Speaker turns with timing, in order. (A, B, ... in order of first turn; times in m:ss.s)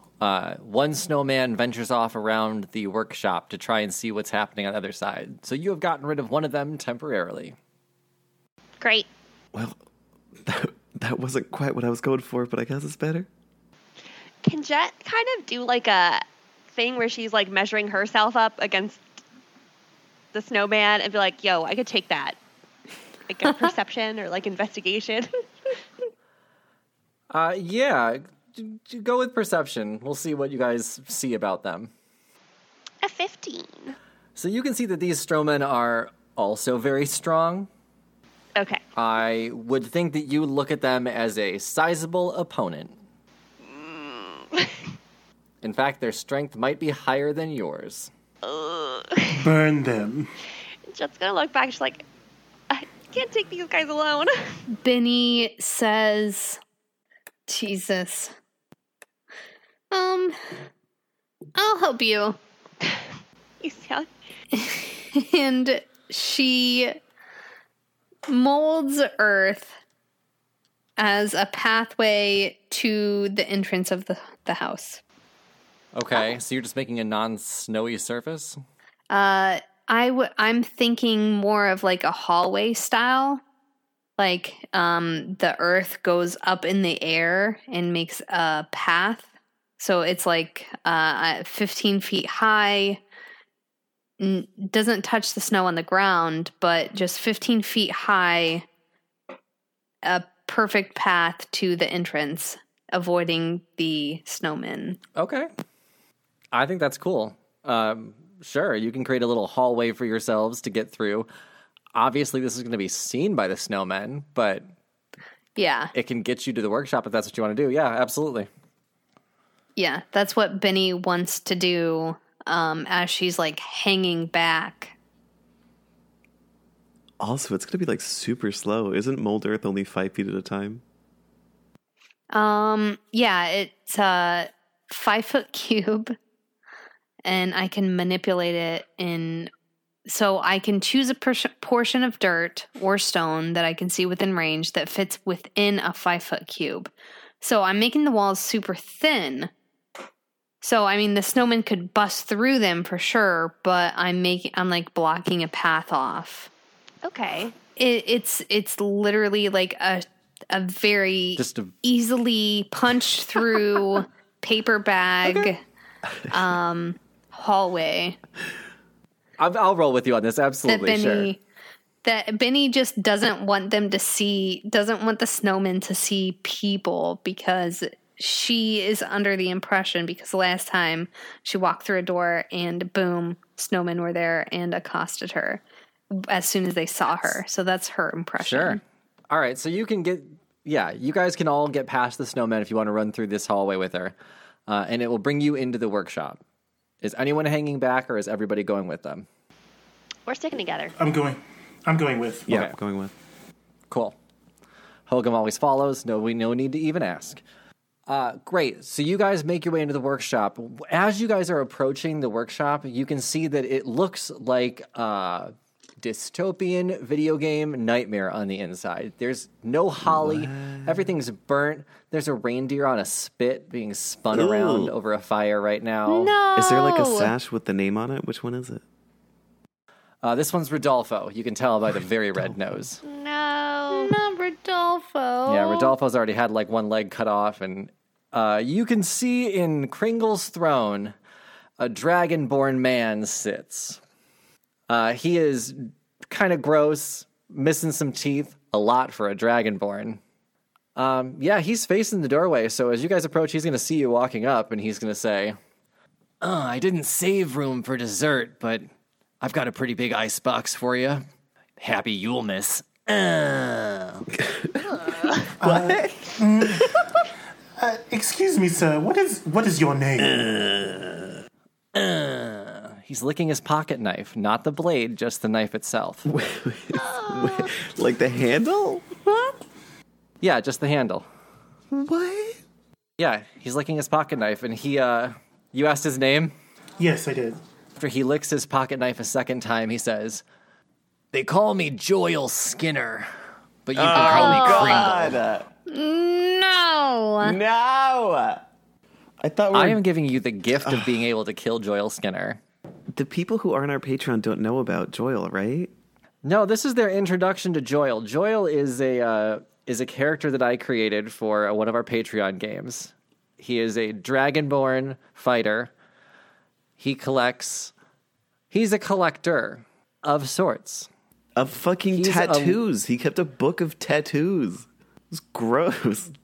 0:00.2-0:07.6 A
0:08.8-0:09.1 B
0:09.5-0:09.8 C
0:10.4-0:13.3 C
0:14.4-0:19.0 B
0:20.3-0:22.4 B
0:23.3-0:25.4 B
0:27.3-0:31.9 A
0:33.0-0:34.0 B
0:34.4-0:37.7 A
0:38.6-0:38.8 B
0:39.0-0:43.0 A
0:43.7-0:44.7 B
0:45.6-0:48.1 A
0:48.4-0:49.4 B
0:49.3-0:50.3 D
0:50.9-0:52.0 B
0:52.7-0:54.5 B
0:54.8-0:56.6 E
0:57.5-0:58.3 E
0:59.9-1:00.4 E
1:01.5-1:02.4 E
1:03.6-1:04.1 B
1:04.5-1:07.0 E
1:08.3-1:09.8 E
1:11.0-1:15.0 E
1:15.9-1:18.6 A
1:19.1-1:23.4 E
1:24.2-1:33.0 E
1:34.2-1:38.6 E
1:40.0-1:45.0 E
1:45.1-1:45.5 A
1:46.5-1:51.3 A
1:51.9-1:54.7 A
1:55.6-1:55.9 E
1:55.9-1:58.5 A
1:59.8-2:04.9 E
2:07.2-2:10.8 C
2:12.3-2:16.1 E
2:17.2-2:19.5 E
2:20.0-2:29.5 E
2:30.6-2:36.5 E
2:37.0-2:37.5 B
2:37.7-2:45.6 E
2:41.4-2:41.7 A
2:45.2-2:45.5 A
2:46.3-2:48.2 E
2:49.4-2:51.3 A
2:50.7-2:51.4 E
2:52.0-3:08.8 E
3:08.4-3:14.1 A
3:14.7-3:16.4 A
3:17.0-3:19.3 A
3:20.3-3:20.9 B
3:21.0-3:22.5 D
3:22.5-3:23.1 C
3:23.9-3:24.2 A
3:25.1-3:27.4 A
3:28.1-3:46.3 A
3:40.0-3:41.1 C
3:44.3-3:44.9 C
3:46.1-3:47.3 E
3:46.5-3:48.8 C
3:50.2-3:53.0 A
3:53.0-3:54.2 B
3:53.9-3:55.9 E
3:55.4-4:01.1 A
4:01.8-4:04.0 A
4:04.9-4:10.2 A
4:11.0-4:15.6 A
4:16.4-4:18.9 A
4:19.4-4:21.2 A
4:21.8-4:24.2 A
4:24.4-4:25.0 C
4:25.6-4:27.0 D
4:25.6-4:27.1 C
4:27.8-4:30.6 D
4:30.5-4:31.2 A
4:31.9-4:36.2 A
4:36.2-4:39.0 C
4:39.2-4:39.6 E
4:40.4-4:41.3 A
4:41.9-4:42.6 C
4:43.2-4:46.5 A
4:47.0-4:47.6 D
4:48.0-4:50.4 A
4:51.3-4:53.3 A
4:53.8-4:55.4 A
4:53.9-4:55.7 C
4:54.1-4:55.3 E
4:55.9-4:57.6 E
4:57.4-4:58.6 C
4:59.4-5:00.0 C
4:59.7-5:02.6 A
5:00.8-5:01.2 C
5:03.1-5:05.9 C
5:06.4-5:15.9 A
5:17.0-5:17.9 A
5:18.7-5:21.1 A
5:21.6-5:26.3 C
5:22.1-5:22.8 A